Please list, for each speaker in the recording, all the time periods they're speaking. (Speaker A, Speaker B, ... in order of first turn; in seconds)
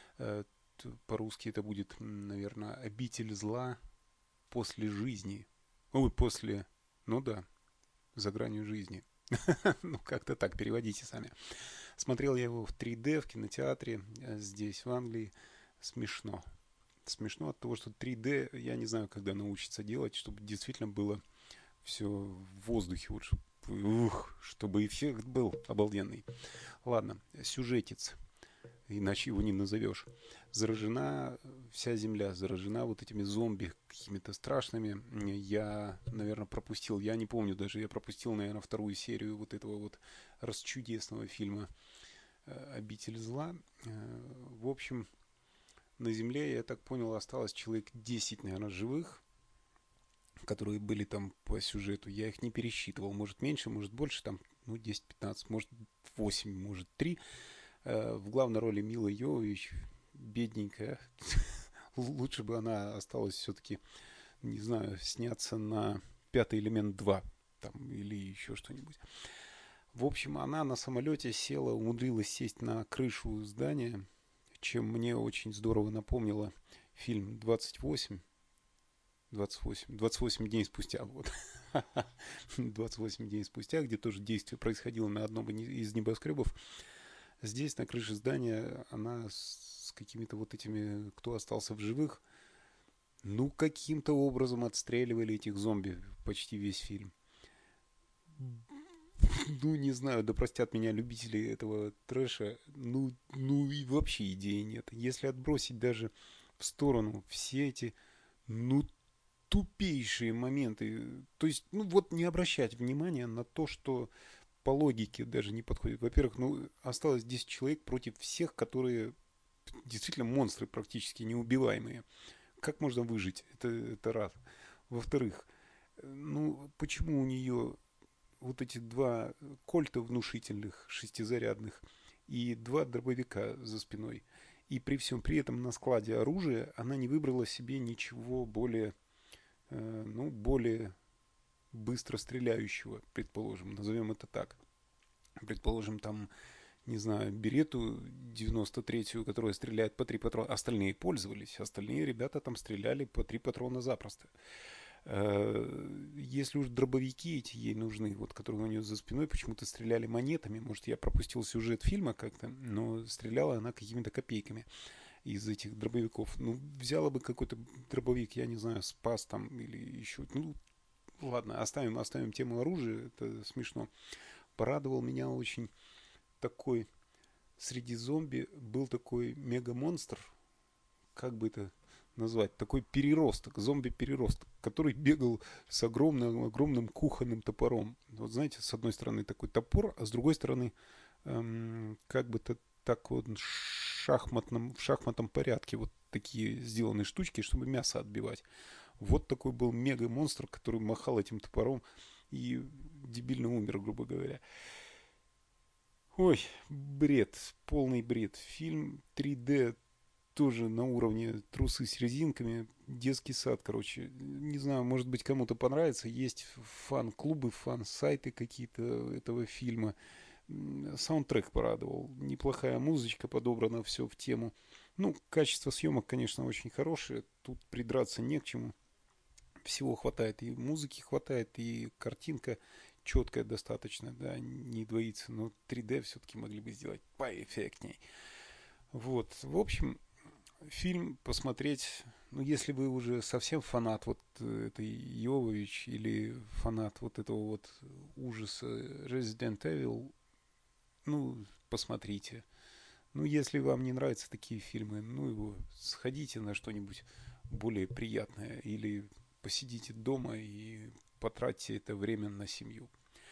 Speaker A: 0.2-3.8, 4.5-7.5, 8.1-11.3, 11.9-16.4, 17.0-21.2, 21.8-26.2, 26.8-28.2, 28.9-41.7, 42.5-45.1, 46.0-49.2, 50.4-57.2, 57.8-63.8, 64.4-69.0, 69.9-74.0, 74.6-78.2, 79.3-86.5, 87.4-92.2, 93.2-97.1, 98.3-107.9, 108.5-108.9, 109.5-114.1, 114.6-119.1, 119.7-122.0, 122.6-127.8, 128.4-138.9, 139.7-140.9, 141.7-144.6, 145.4-146.3, 146.8-154.3, 155.0-164.7, 165.2-170.6, 171.2-173.9, 174.6-175.7, 176.4-176.9, 177.6-180.3, 181.1-198.4, 199.0-204.4, 206.1-209.8, 210.3-219.9, 220.5-228.7, 229.6-238.0, 238.9-240.0, 240.6-250.1, 251.0-252.4, 253.1-262.9